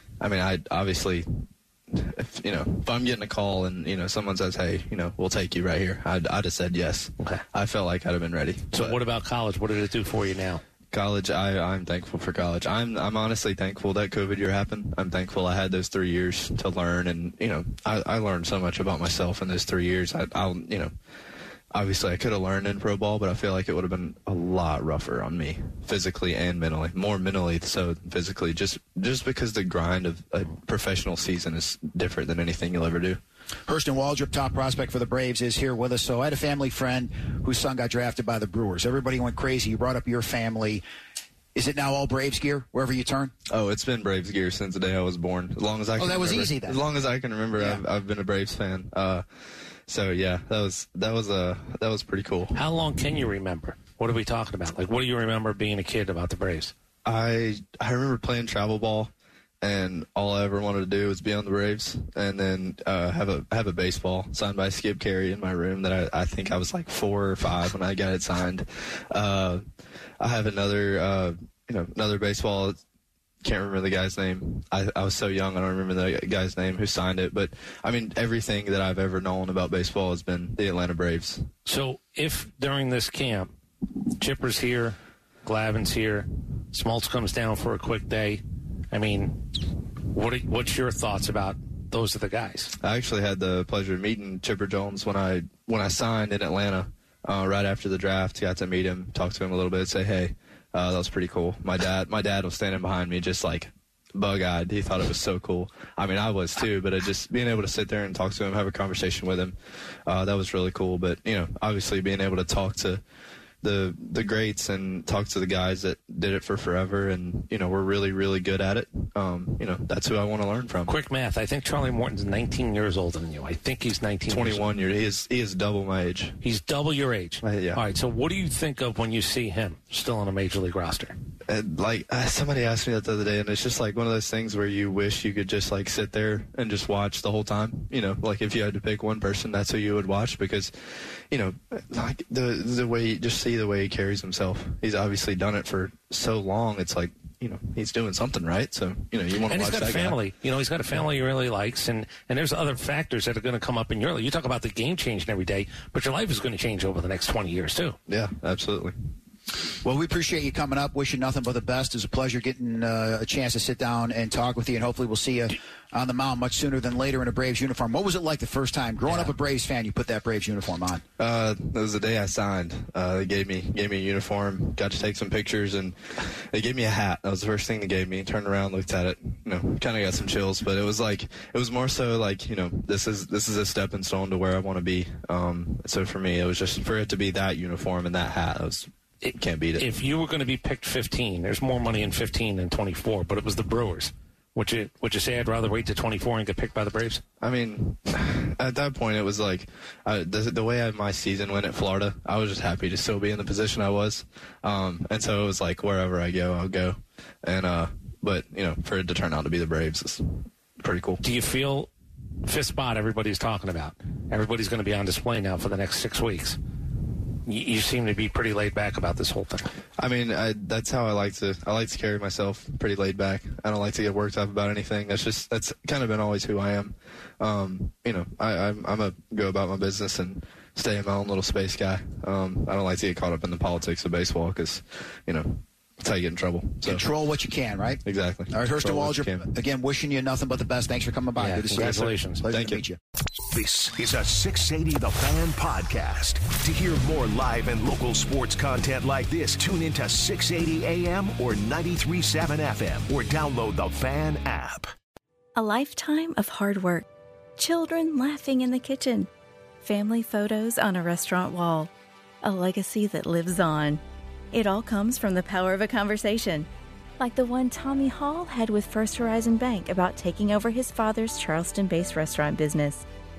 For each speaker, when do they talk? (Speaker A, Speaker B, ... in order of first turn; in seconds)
Speaker A: 0.2-9.0, 10.9-20.9, 21.7-33.2, 43.5-49.2, 49.9-52.6, 57.0-69.6, 70.2-72.8, 73.4-81.5, 92.8-113.0, 113.6-121.0, 124.3-126.4, 127.4-127.8, 131.5-150.2, 158.1-158.9, 171.2-189.9, 197.4-211.2, 220.0-237.0, 238.1-239.5, 242.5-242.8
Speaker B: 8.7-10.6, 52.5-56.7, 81.7-83.6, 84.2-92.7, 120.9-124.7, 126.4-131.2, 149.5-158.0, 169.1-169.3, 189.2-197.2, 211.2-211.9, 212.4-216.6, 217.5-219.7, 241.4-242.4
Speaker C: 33.7-40.8, 41.5-43.3, 46.0-46.8, 47.6-47.8, 159.8-171.0, 236.8-243.0
Speaker D: 243.5-254.9
Speaker E: 255.6-257.1, 257.6-259.3, 259.8-261.9, 262.4-264.0, 264.5-266.7, 267.2-273.0